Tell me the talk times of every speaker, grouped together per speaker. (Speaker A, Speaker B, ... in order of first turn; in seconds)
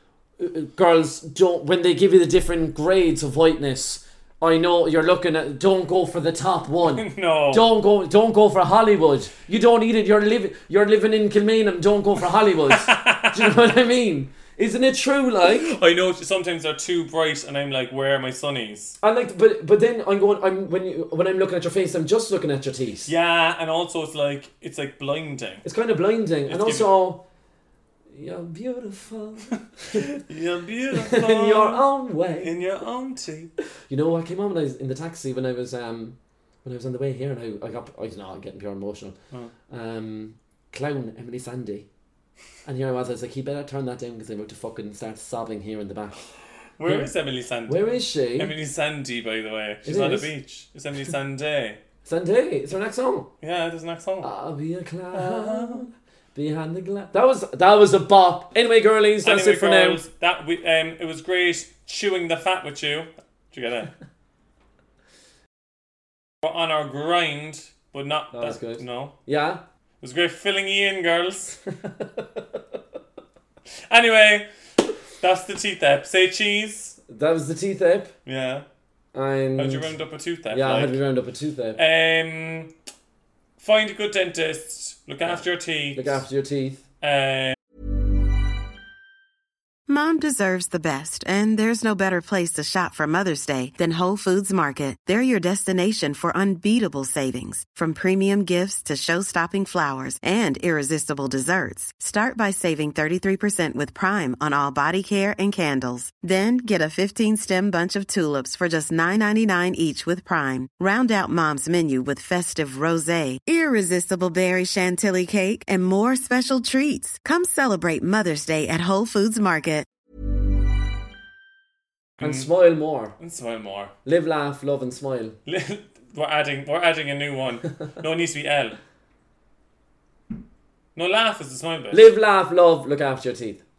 Speaker A: 0.4-15.8, 19.0-23.1, 25.6-27.2, 28.1-30.2, 31.0-32.5, 33.9-39.1, 39.7-41.9, 42.6-46.2, 46.9-47.1, 47.7-48.5, 49.8-50.3, 52.0-53.3, 54.2-60.0, 68.3-69.6, 72.0-72.4, 77.1-78.1, 79.1-79.9, 80.5-81.8, 85.2-86.8, 122.2-123.2, 124.0-125.4, 131.9-133.6
Speaker B: 6.9-7.7, 12.7-13.5, 15.4-19.0, 23.1-25.6, 26.5-26.9, 29.9-31.8, 32.4-33.5, 46.8-51.8, 53.4-54.3, 55.1-55.8, 59.2-63.9, 66.4-69.2, 70.0-71.6, 73.9-74.5, 75.2-77.0, 78.3-78.7, 79.6-81.0, 81.8-82.7, 83.6-86.2, 87.0-87.5, 122.2-122.5, 123.2-123.9, 125.5-128.8, 131.0-132.1
Speaker C: 89.9-119.9